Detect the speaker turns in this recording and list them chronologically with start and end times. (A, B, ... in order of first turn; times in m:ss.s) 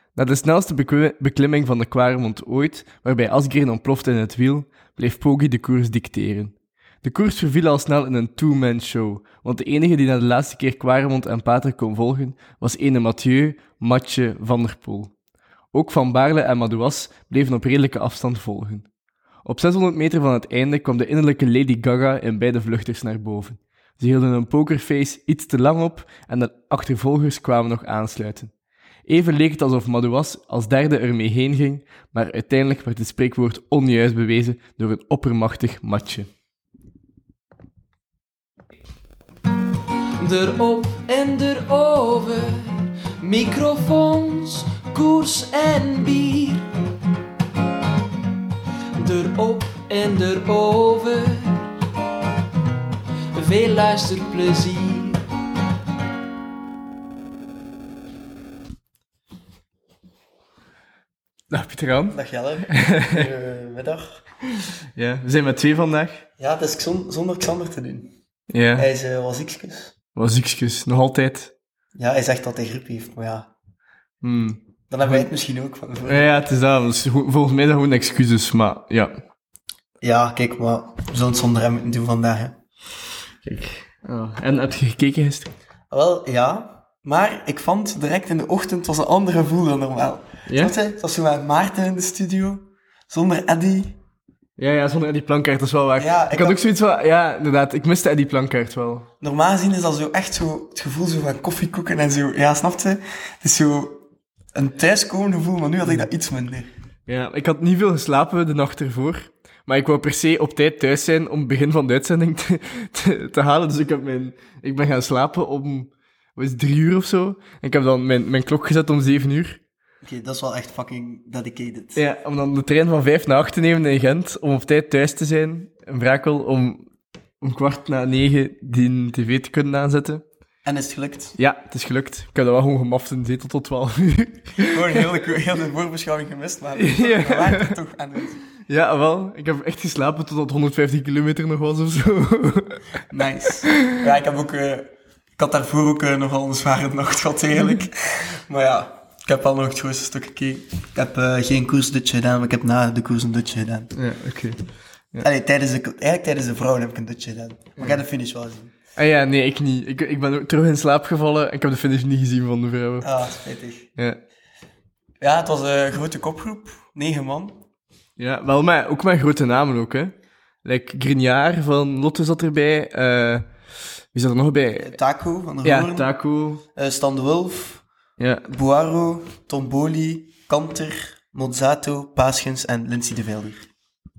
0:00.1-0:15.1 A
0:15.7-0:18.9 A
0:19.4-0:28.5 A
0:29.0-0:36.3 A
0:40.2-0:46.6 B
0:49.0-0:51.7 B
0:53.3-0:55.2 B
1:01.5-1:03.3 A
1:02.1-1:04.2 C
1:04.9-1:06.2 A
1:06.4-1:08.1 C
1:08.5-1:08.9 A
1:08.8-1:09.9 C
1:10.1-1:11.5 A
1:12.0-1:13.5 C
1:14.2-1:15.3 A
1:14.9-1:16.2 C
1:16.0-1:19.2 A
1:20.0-1:22.5 C
1:23.4-1:25.5 A
1:25.9-1:34.0 C
1:30.4-1:30.7 A
1:34.6-1:39.1 A
1:36.0-1:36.6 C
1:39.2-1:46.7 C
1:47.1-1:59.6 A
2:00.0-2:02.0 C
2:01.9-2:06.8 A
2:07.4-2:10.2 A
2:10.6-2:11.4 C
2:11.4-2:15.0 A
2:14.7-2:18.4 C
2:16.8-2:17.8 A
2:18.6-2:22.8 A
2:23.1-2:33.9 C
2:23.7-2:24.0 A
2:33.9-2:34.6 A
2:35.2-2:38.7 C
2:39.0-2:43.1 A
2:43.0-2:43.9 C
2:45.2-2:47.6 C
2:48.2-2:50.1 A
2:50.6-2:53.5 A
2:54.1-2:55.0 A
2:54.8-2:56.1 C
2:55.6-2:56.6 A
2:56.7-2:57.8 C
2:58.2-2:58.4 A
2:58.5-3:03.7 C